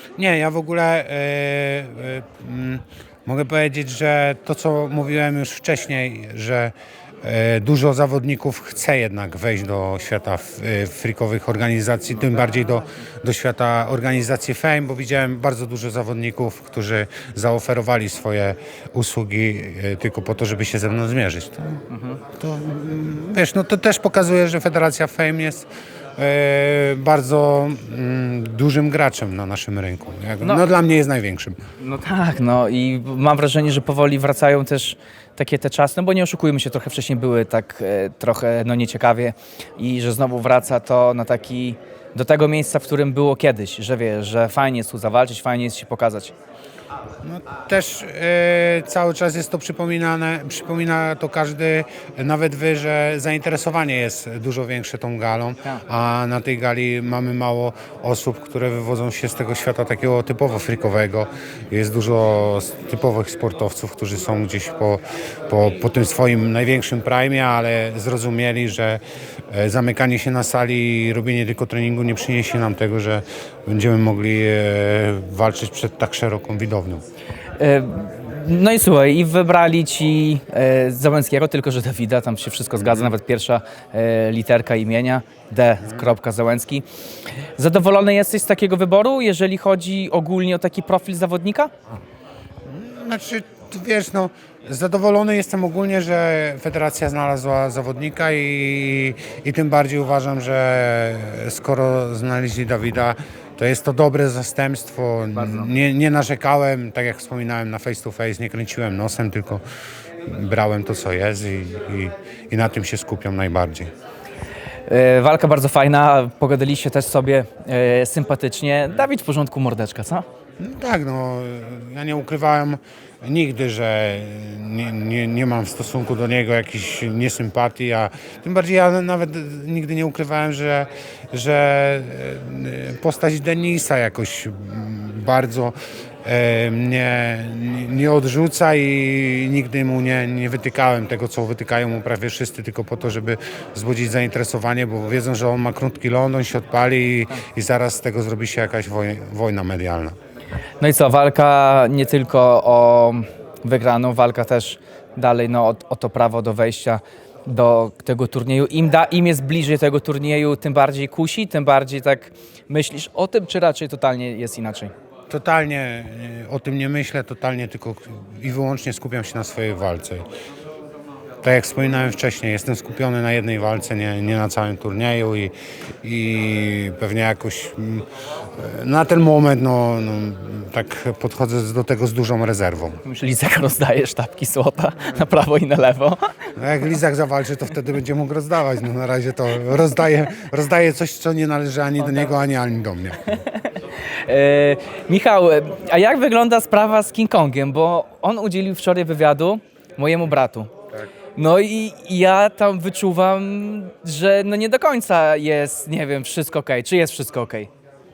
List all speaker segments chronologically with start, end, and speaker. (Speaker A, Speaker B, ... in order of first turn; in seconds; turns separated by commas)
Speaker A: 0.2-21.8, Speaker B: 21.9-22.2, Speaker A: 22.4-31.6, Speaker B: 31.8-46.3, Speaker A: 47.2-77.0, Speaker B: 77.6-86.8, Speaker A: 82.8-83.1, Speaker B: 87.6-91.7, Speaker A: 92.7-109.6, Speaker B: 105.3-105.7, Speaker A: 110.2-113.9, Speaker B: 114.9-120.2, Speaker A: 120.6-150.2, Speaker B: 150.8-164.9, Speaker A: 165.3-170.2, Speaker A: 171.4-178.1, Speaker A: 178.6-183.0, Speaker B: 183.0-186.2, Speaker A: 186.6-193.3, Speaker B: 193.7-200.7, Speaker B: 201.4-207.7